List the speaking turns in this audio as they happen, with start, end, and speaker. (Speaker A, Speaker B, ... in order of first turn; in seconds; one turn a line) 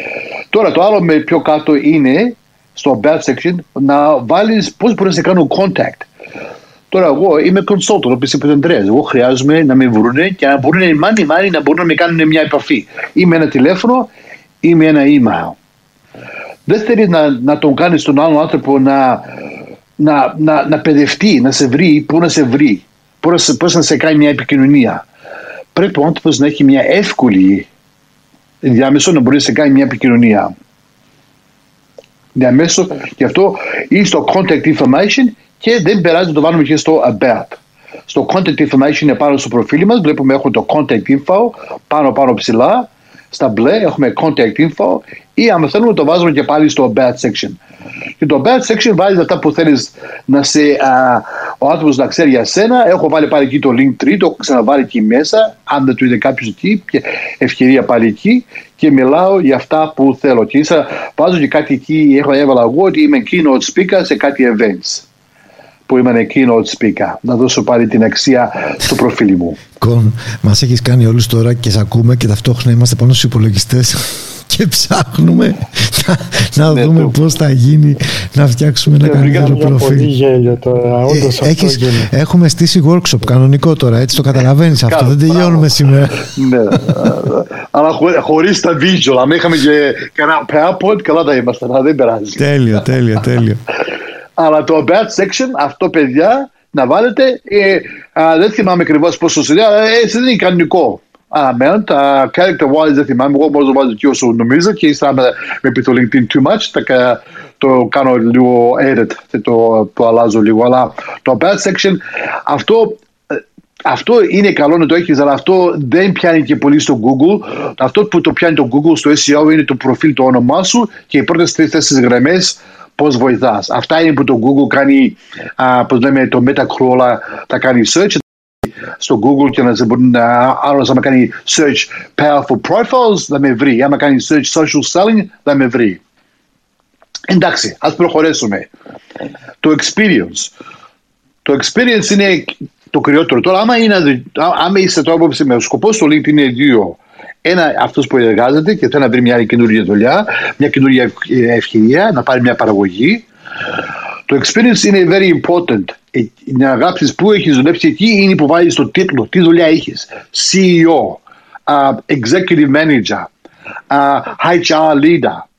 Speaker A: 0.5-6.1
Speaker A: 6.9-14.1
Speaker A: 14.6-15.6
Speaker A: 16.7-19.3
Speaker A: 20.0-25.1
Speaker A: 25.8-27.7
Speaker A: 28.6-30.5
Speaker A: 32.4-47.6
Speaker A: 48.2-65.0
Speaker A: 65.9-69.6
Speaker B: 69.8-80.1
Speaker A: 76.7-77.1
Speaker C: 79.0-82.1
Speaker A: 79.0-79.7
Speaker B: 81.1-86.3
Speaker A: 84.9-85.7
Speaker A: 86.3-92.4
Speaker B: 92.4-93.6
Speaker A: 94.4-128.2
Speaker A: 128.9-136.0
Speaker A: 137.3-138.7
Speaker A: 139.6-140.5
Speaker A: 141.4-153.3
Speaker A: 154.3-163.3
Speaker A: 163.9-165.4